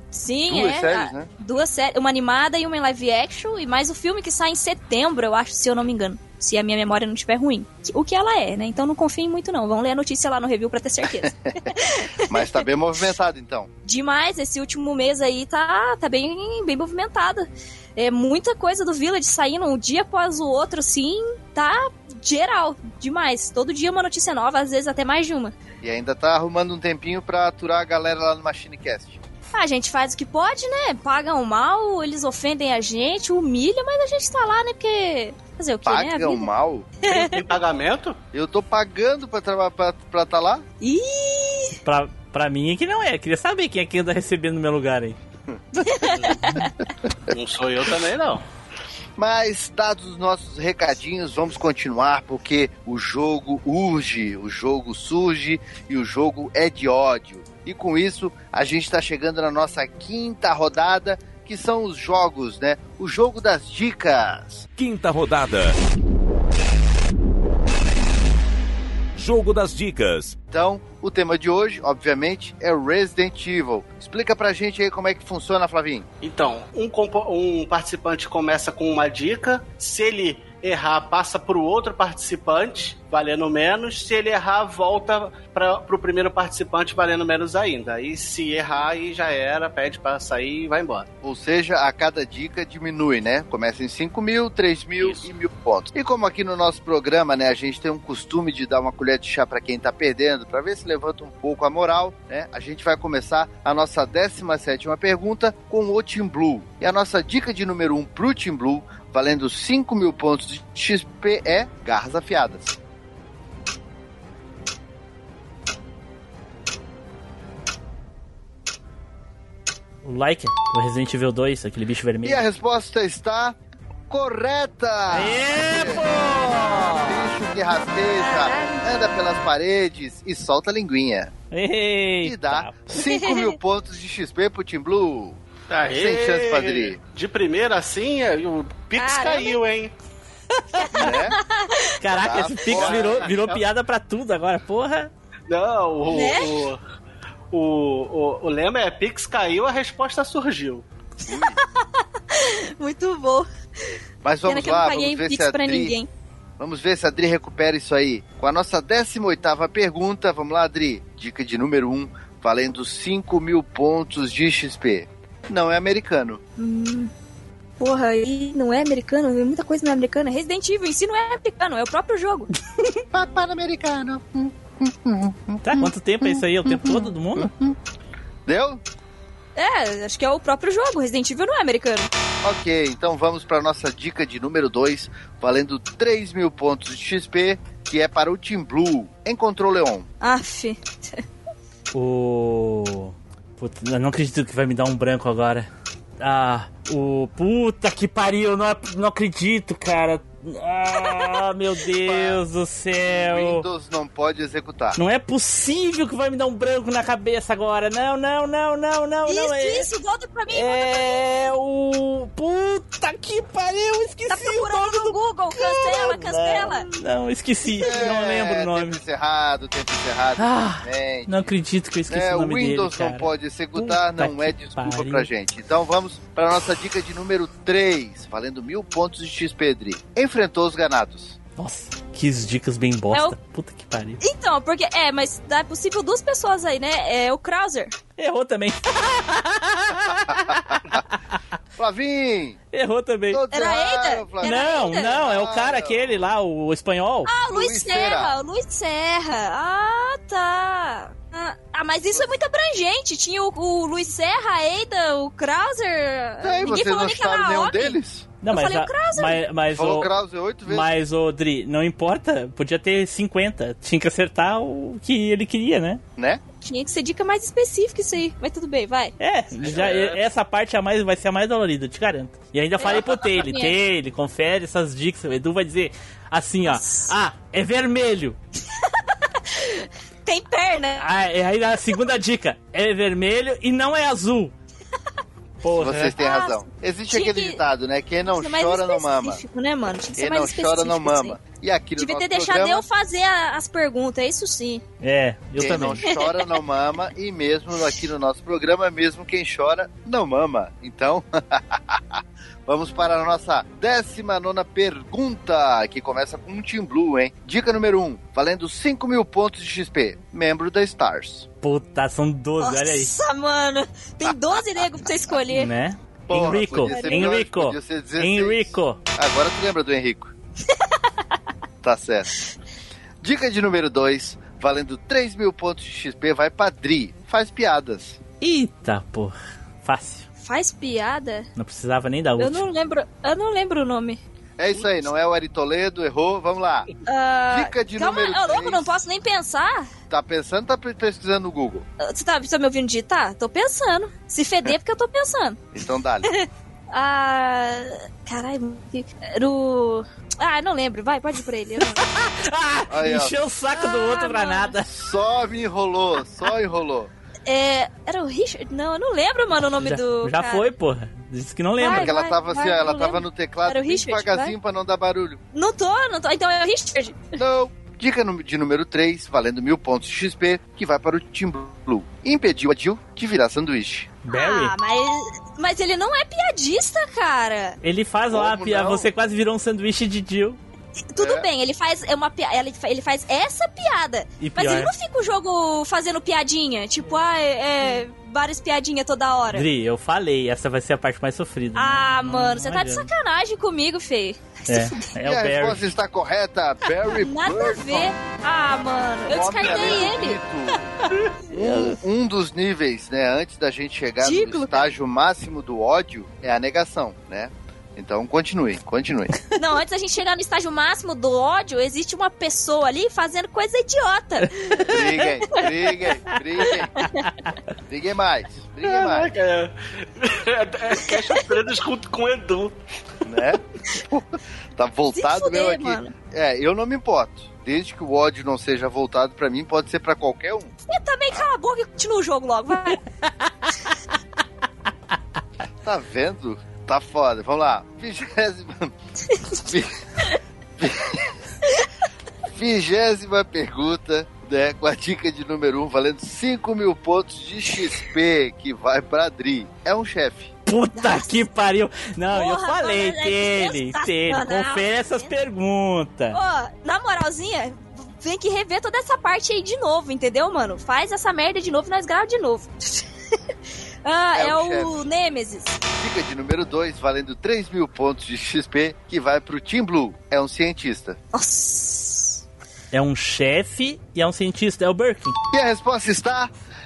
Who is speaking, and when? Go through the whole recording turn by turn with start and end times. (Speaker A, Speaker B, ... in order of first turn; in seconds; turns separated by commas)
Speaker A: 0.1-12.6, Speaker B: 0.5-1.3, Speaker B: 11.2-11.7, Speaker B: 12.3-13.7, Speaker A: 13.8-25.5, Speaker B: 25.8-29.2, Speaker A: 29.5-36.5, Speaker B: 35.8-36.9, Speaker A: 37.0-37.4, Speaker C: 37.1-38.2, Speaker B: 38.3-40.6, Speaker A: 40.8-41.8, Speaker D: 41.8-45.2, Speaker B: 45.5-46.6, Speaker A: 45.9-46.7, Speaker C: 46.1-46.4, Speaker C: 47.3-48.4, Speaker B: 49.2-64.7, Speaker E: 64.8-65.8, Speaker E: 69.2-70.4, Speaker B: 70.5-76.0, Speaker C: 76.2-91.1, Speaker B: 91.2-112.8, Speaker C: 95.0-95.3, Speaker D: 120.0-122.4, Speaker B: 122.2-123.6, Speaker B: 124.1-131.3, Speaker D: 125.1-127.3, Speaker A: 128.2-128.8, Speaker D: 131.5-132.9, Speaker B: 132.2-137.0, Speaker A: 133.0-133.5, Speaker C: 135.7-139.9, Speaker A: 139.0-139.6, Speaker A: 140.8-141.9, Speaker B: 140.9-141.4, Speaker D: 142.0-145.1, Speaker B: 142.1-143.3, Speaker C: 142.7-143.6, Speaker C: 145.5-146.8, Speaker A: 146.1-146.6, Speaker C: 147.5-150.8, Speaker B: 151.3-151.6, Speaker A: 151.3-153.9, Speaker B: 154.2-155.9, Speaker A: 154.5-156.1, Speaker B: 156.6-166.4, Speaker A: 166.6-167.1, Speaker A: 167.8-172.5, Speaker B: 173.1-177.8, Speaker D: 175.6-177.5, Speaker B: 178.4-178.8, Speaker A: 179.6-182.1, Speaker B: 182.4-190.1, Speaker A: 190.2-191.2, Speaker D: 191.9-195.7, Speaker D: 196.2-203.7, Speaker A: 201.0-201.3, Speaker B: 202.0-202.4, Speaker B: 203.1-205.0, Speaker D: 204.9-209.9, Speaker A: 209.3-211.3, Speaker D: 210.5-219.0, Speaker A: 214.3-216.9, Speaker A: 217.7-218.0, Speaker B: 217.8-221.5, Speaker D: 220.4-225.3, Speaker B: 222.1-231.4, Speaker D: 231.6-234.2, Speaker A: 234.2-237.9, Speaker D: 238.2-241.4, Speaker B: 240.3-240.8, Speaker B: 241.8-242.6, Speaker D: 242.7-243.4, Speaker B: 243.3-246.2, Speaker A: 243.5-245.1, Speaker D: 244.4-247.3, Speaker A: 247.3-259.4, Speaker B: 247.5-248.4, Speaker B: 256.4-258.3, Speaker D: 258.4-260.1, Speaker B: 259.7-260.9, Speaker D: 260.6-266.0, Speaker B: 266.2-266.4, Speaker A: 266.6-269.1, Speaker D: 269.2-278.4, Speaker C: 269.6-270.2, Speaker A: 272.8-273.8, Speaker A: 276.7-277.1, Speaker A: 278.8-281.1, Speaker D: 281.0-284.5, Speaker D: 285.6-286.2, Speaker B: 285.8-289.4, Speaker A: 286.2-287.6, Speaker A: 288.2-291.4, Speaker B: 290.2-292.8, Speaker A: 292.0-294.8, Speaker D: 295.0-296.1, Speaker B: 295.6-311.5, Speaker A: 296.1-296.5, Speaker D: 311.6-313.1, Speaker A: 312.6-315.7, Speaker B: 314.2-314.8, Speaker D: 315.5-319.0, Speaker B: 316.3-320.3, Speaker A: 316.9-317.2, Speaker A: 320.7-320.9, Speaker B: 321.8-322.3, Speaker B: 323.2-328.2, Speaker D: 328.4-330.3, Speaker A: 330.4-331.5, Speaker D: 331.6-332.6, Speaker A: 332.4-334.2, Speaker B: 334.6-336.9, Speaker A: 337.1-339.9, Speaker B: 337.5-338.9, Speaker B: 340.1-341.9, Speaker A: 342.0-345.6, Speaker B: 345.7-346.3, Speaker A: 346.3-352.1, Speaker D: 352.0-354.9, Speaker B: 352.9-353.4, Speaker A: 353.7-354.7, Speaker B: 354.9-357.1, Speaker A: 357.4-360.7, Speaker D: 359.7-362.1, Speaker A: 361.8-364.6, Speaker B: 361.8-365.4, Speaker A: 365.5-367.3, Speaker B: 367.4-374.2, Speaker D: 374.2-374.7, Speaker A: 374.3-377.8, Speaker D: 377.8-380.6, Speaker B: 378.3-379.1, Speaker A: 381.1-389.7, Speaker B: 381.1-381.5, Speaker D: 384.4-384.9, Speaker D: 389.5-393.1, Speaker A: 391.7-394.9, Speaker D: 394.7-395.9, Speaker B: 395.2-398.1, Speaker A: 397.1-400.4, Speaker B: 399.3-400.9, Speaker C: 399.6-400.0, Speaker B: 401.5-409.4, Speaker D: 401.5-402.0, Speaker A: 404.2-404.9, Speaker A: 409.6-415.6, Speaker B: 414.9-417.0, Speaker A: 416.6-417.3, Speaker B: 417.9-419.3, Speaker C: 418.8-422.7, Speaker B: 423.2-430.7, Speaker A: 425.1-426.1, Speaker A: 430.9-433.0, Speaker D: 433.4-433.7, Speaker B: 435.8-438.9, Speaker A: 439.3-439.6, Speaker B: 439.6-440.0, Speaker B: 440.8-441.3, Speaker B: 442.5-450.5, Speaker D: 450.7-456.4, Speaker A: 451.0-451.4, Speaker A: 452.3-455.3, Speaker A: 456.3-463.0, Speaker A: 464.0-465.8, Speaker B: 464.3-465.1, Speaker B: 466.0-471.2, Speaker A: 471.3-472.4, Speaker D: 472.9-475.4, Speaker B: 475.5-476.5